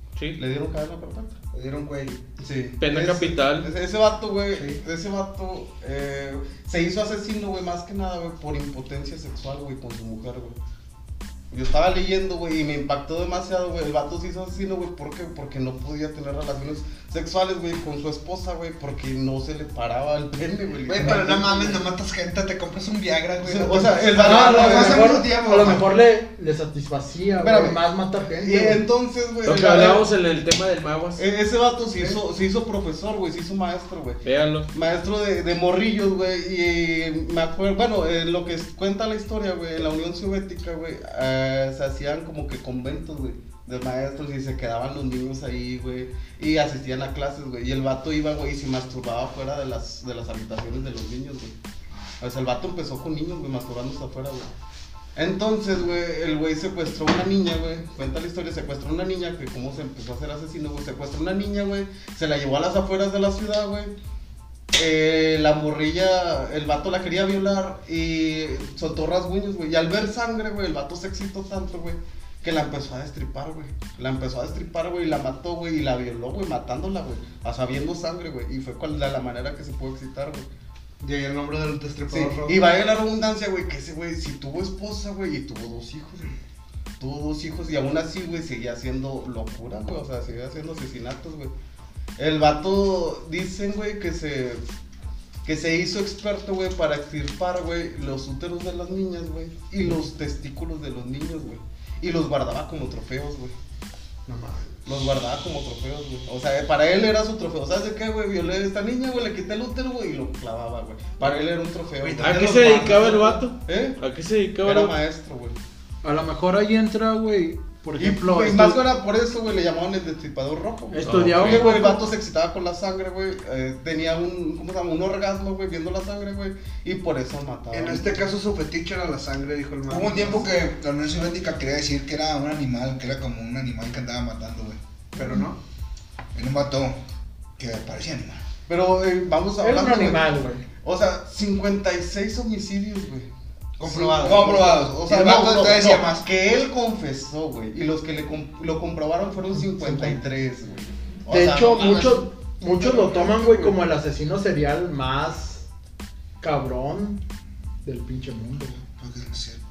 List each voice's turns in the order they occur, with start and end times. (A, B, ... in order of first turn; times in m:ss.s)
0:00.4-0:01.4 A
0:01.5-0:02.2 B
0:02.4-0:10.6 A
0:02.8-0:03.7 C
0:04.6-0:04.8 B
0:11.5-0:21.9 A
0:20.9-0:24.8 B
0:23.4-0:25.2 A
0:24.2-0:28.8 D
0:24.2-0:25.9 E
0:27.4-0:30.1 A
0:29.4-0:31.2 C
0:31.2-0:51.6 A
0:34.2-0:34.7 C
0:52.2-0:54.5 A
0:55.2-1:03.9 A
1:04.7-1:20.5 A
1:21.0-1:22.7 B
1:22.1-1:26.4 A
1:27.0-1:31.5 A
1:32.2-1:34.6 A
1:35.4-1:43.5 A
1:44.3-1:44.8 B
1:44.8-1:54.0 A
1:52.0-1:53.4 B
1:52.2-1:55.0 C
1:54.6-1:55.6 A
1:56.0-1:58.8 D
1:58.0-2:08.2 A
2:00.9-2:02.1 D
2:01.0-2:01.8 C
2:07.7-2:10.4 B
2:09.9-2:14.8 E
2:15.2-2:15.6 B
2:16.4-2:17.0 E
2:17.6-2:18.4 E
2:18.7-2:23.3 A
2:19.6-2:20.6 D
2:23.8-2:26.3 E
2:23.8-2:32.2 A
2:29.6-2:30.2 D
2:31.3-2:35.7 D
2:32.8-2:33.7 B
2:36.4-2:37.2 D
2:37.8-2:38.8 D
2:38.9-2:39.6 E